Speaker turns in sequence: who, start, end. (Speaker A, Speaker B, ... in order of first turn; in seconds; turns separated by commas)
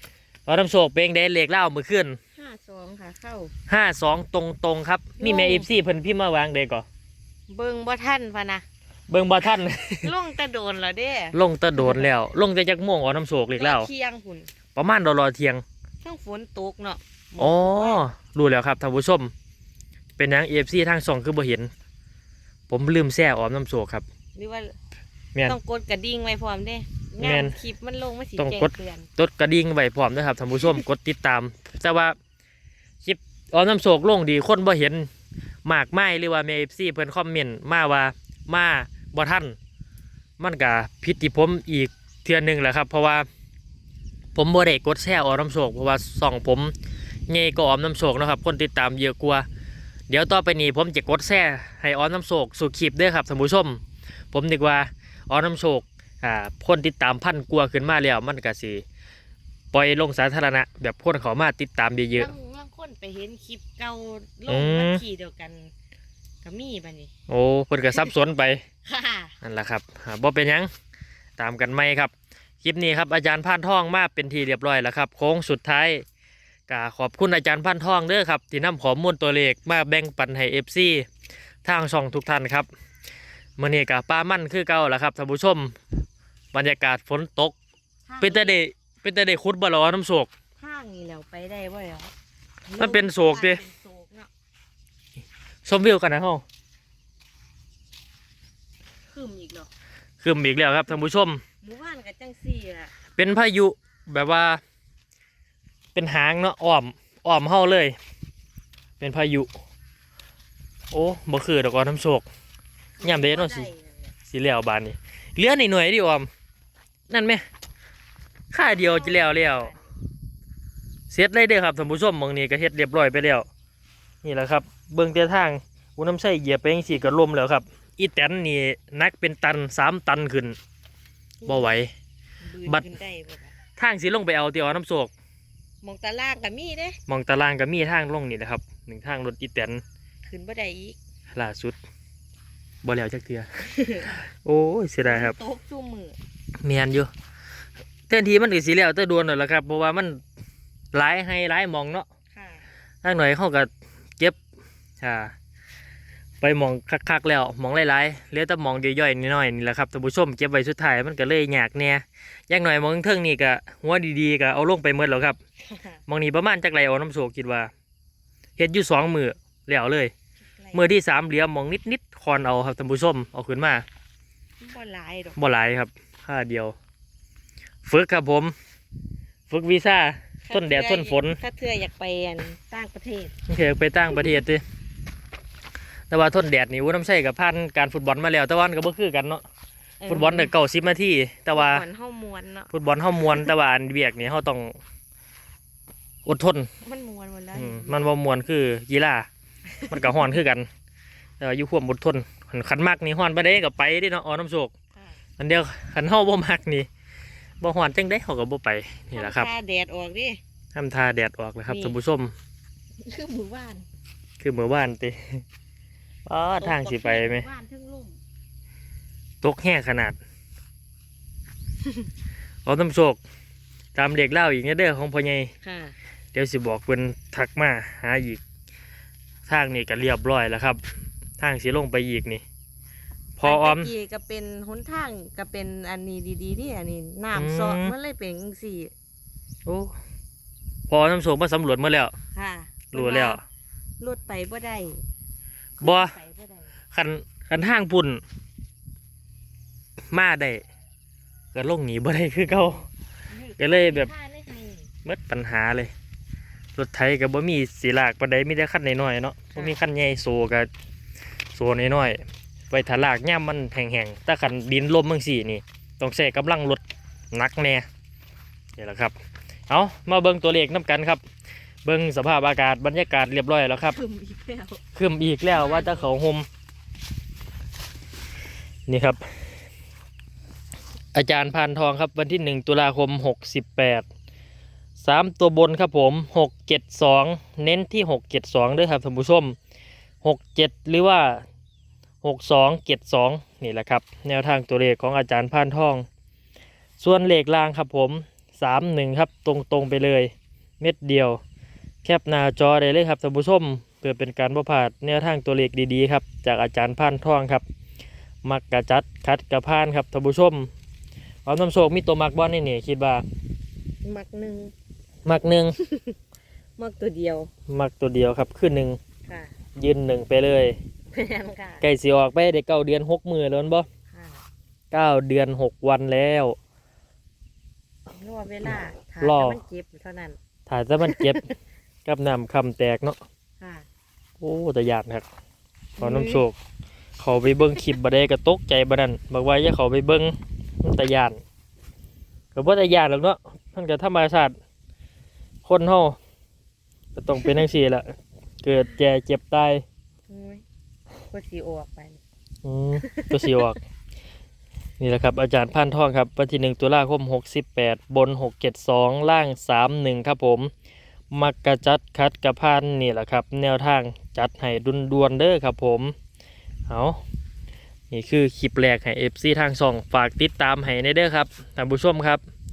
Speaker A: 0.5-2.2, Speaker B: 2.4-3.5, Speaker A: 3.7-6.8, Speaker B: 5.2-5.7, Speaker B: 7.5-8.6, Speaker A: 9.1-10.1, Speaker B: 10.0-12.1, Speaker A: 11.3-13.9, Speaker B: 13.6-14.5, Speaker A: 14.7-15.6, Speaker B: 16.0-18.0, Speaker A: 17.4-19.3, Speaker A: 20.2-21.7, Speaker A: 22.7-24.0, Speaker B: 24.3-24.7, Speaker B: 25.4-29.1, Speaker A: 27.2-27.5, Speaker A: 28.4-32.1, Speaker A: 33.0-35.1, Speaker A: 35.6-39.5, Speaker A: 40.4-43.2, Speaker A: 44.3-46.7, Speaker A: 47.3-49.5, Speaker A: 50.1-53.8, Speaker A: 54.3-58.8, Speaker A: 59.7-62.3, Speaker B: 62.1-65.7, Speaker A: 64.5-65.0, Speaker B: 66.4-67.1, Speaker A: 67.3-68.6, Speaker B: 68.8-69.3, Speaker A: 69.4-70.7, Speaker A: 71.4-76.0, Speaker A: 76.7-81.1, Speaker A: 81.6-82.7, Speaker A: 83.6-85.8, Speaker A: 86.5-87.5, Speaker B: 88.1-88.6, Speaker A: 88.2-90.3, Speaker B: 90.6-92.1, Speaker B: 92.7-94.3, Speaker A: 92.8-93.6, Speaker A: 95.7-96.4, Speaker B: 99.1-99.7, Speaker A: 100.2-101.4, Speaker B: 101.6-102.9, Speaker A: 103.2-104.6, Speaker A: 105.9-108.0, Speaker A: 109.0-109.5, Speaker A: 110.9-112.2, Speaker B: 113.0-114.1, Speaker A: 113.0-113.7, Speaker A: 114.2-116.3, Speaker A: 117.1-117.4, Speaker A: 118.5-119.7, Speaker B: 118.6-119.9, Speaker A: 121.1-123.5, Speaker A: 124.2-130.6, Speaker B: 131.4-131.8, Speaker A: 131.4-131.9, Speaker B: 132.4-133.5, Speaker A: 132.6-132.9, Speaker A: 133.8-135.1, Speaker B: 135.8-137.0, Speaker A: 137.1-139.8, Speaker B: 140.2-141.0, Speaker A: 141.3-141.8, Speaker A: 142.8-143.5, Speaker B: 143.7-144.1, Speaker A: 144.1-145.3, Speaker B: 145.0-146.2, Speaker A: 146.6-147.1, Speaker A: 148.1-150.2, Speaker A: 150.9-152.1, Speaker B: 152.3-152.7, Speaker A: 153.0-154.4, Speaker A: 155.0-155.3, Speaker A: 156.4-165.4, Speaker B: 165.6-166.0, Speaker A: 166.1-167.7, Speaker A: 168.6-170.1, Speaker B: 170.6-170.9, Speaker A: 170.7-173.8, Speaker B: 174.6-175.4, Speaker A: 175.3-176.7, Speaker A: 177.8-178.5, Speaker A: 179.5-181.4, Speaker B: 180.4-183.3, Speaker A: 183.5-184.6, Speaker A: 186.1-189.4, Speaker B: 190.0-190.5, Speaker A: 190.1-191.8, Speaker B: 191.5-192.7, Speaker A: 192.7-194.8, Speaker A: 196.2-196.7, Speaker B: 196.8-198.0, Speaker A: 197.5-199.3, Speaker B: 199.7-200.3, Speaker A: 199.9-200.7, Speaker A: 201.4-204.7, Speaker A: 205.4-206.9, Speaker A: 207.6-209.5, Speaker B: 209.1-210.4, Speaker A: 210.7-212.3, Speaker B: 211.7-211.9, Speaker B: 213.0-213.8, Speaker A: 214.4-215.4, Speaker A: 216.3-217.5, Speaker B: 216.6-218.2, Speaker A: 219.4-220.2, Speaker A: 222.6-223.2, Speaker A: 223.9-225.5, Speaker B: 225.6-225.9, Speaker A: 226.3-228.4, Speaker A: 229.5-230.8, Speaker A: 231.4-232.4, Speaker A: 233.4-233.9, Speaker B: 233.4-238.9, Speaker A: 237.3-237.9, Speaker A: 239.7-239.9, Speaker A: 240.9-242.1, Speaker B: 242.3-243.4, Speaker A: 242.9-243.4, Speaker B: 244.0-245.0, Speaker B: 245.8-246.7, Speaker A: 245.8-246.1, Speaker A: 246.9-248.2, Speaker A: 250.1-250.6, Speaker A: 251.5-252.9, Speaker B: 253.3-254.9, Speaker A: 253.6-254.1, Speaker A: 255.0-255.9, Speaker A: 256.8-260.7, Speaker B: 259.5-259.8, Speaker A: 261.5-267.9, Speaker A: 268.8-269.1, Speaker A: 269.7-271.2, Speaker A: 271.8-274.0, Speaker B: 273.8-274.8, Speaker A: 274.9-276.4, Speaker B: 275.5-276.1, Speaker A: 278.9-279.2, Speaker A: 281.1-284.0, Speaker A: 285.0-289.6, Speaker A: 290.2-291.4, Speaker A: 292.2-296.1, Speaker A: 297.0-301.4, Speaker A: 302.0-307.6, Speaker A: 308.4-310.7, Speaker A: 311.4-313.2, Speaker B: 314.0-314.7, Speaker A: 315.2-315.8, Speaker B: 315.8-316.1, Speaker B: 316.8-317.5, Speaker A: 317.7-319.0, Speaker B: 319.3-319.5, Speaker A: 319.8-320.8, Speaker B: 321.1-321.8, Speaker A: 321.8-323.9, Speaker B: 324.1-324.4, Speaker A: 324.9-326.6, Speaker B: 328.1-330.4, Speaker A: 328.7-329.6, Speaker A: 330.7-331.4, Speaker B: 331.0-331.5, Speaker A: 332.0-333.2, Speaker B: 333.6-333.9, Speaker A: 334.4-335.2, Speaker B: 336.0-336.4, Speaker A: 336.0-336.6, Speaker A: 337.2-341.4, Speaker A: 342.5-344.6, Speaker A: 345.6-346.2, Speaker A: 347.1-349.8, Speaker B: 350.3-350.6, Speaker B: 351.3-352.2, Speaker A: 352.6-353.8, Speaker B: 353.0-353.7, Speaker A: 355.0-360.7, Speaker A: 361.3-366.1, Speaker A: 366.9-367.2, Speaker A: 368.1-372.4